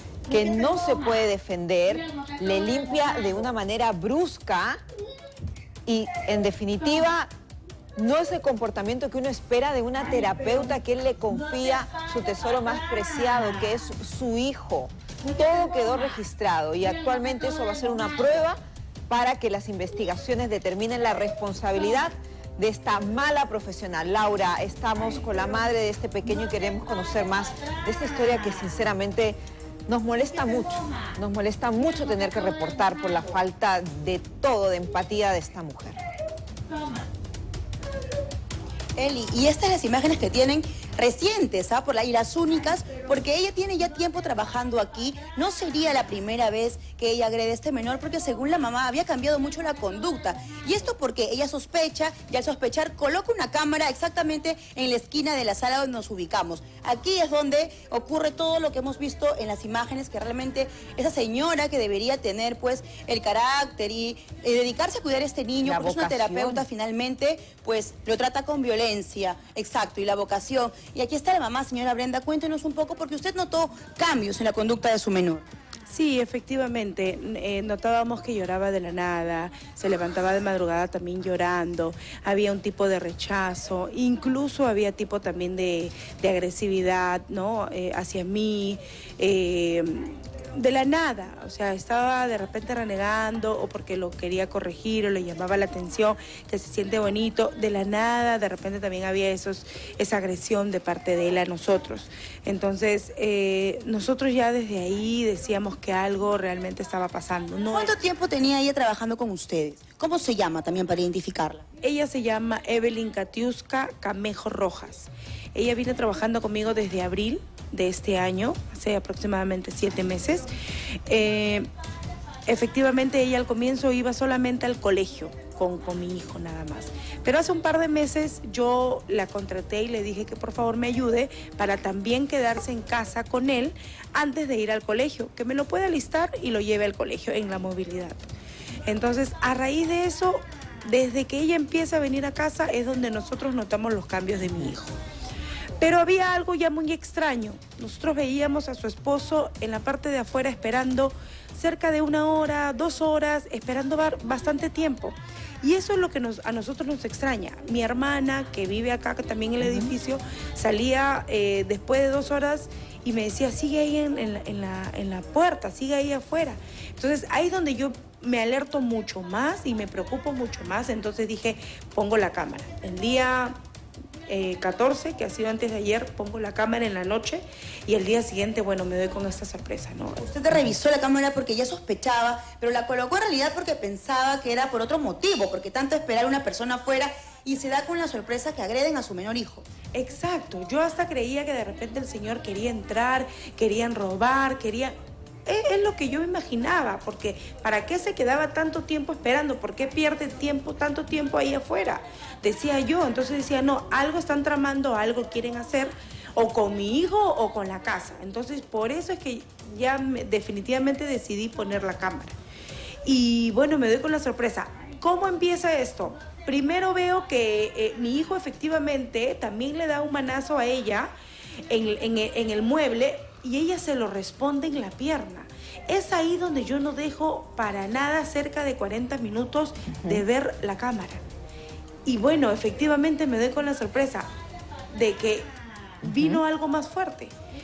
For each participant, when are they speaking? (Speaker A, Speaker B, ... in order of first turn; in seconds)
Speaker A: 0.3-4.8, 5.9-7.3, 8.0-36.0, 65.6-66.7, 236.1-236.4
Speaker B: 39.0-75.5, 107.7-111.7, 180.2-189.7
Speaker C: 75.9-108.0, 111.8-120.5, 121.1-121.7, 122.5-138.2, 138.9-145.0, 145.8-173.6, 174.3-180.2, 189.9-212.3, 213.0-221.1, 221.7-231.2, 232.1-234.3, 234.9-235.5, 236.0-237.3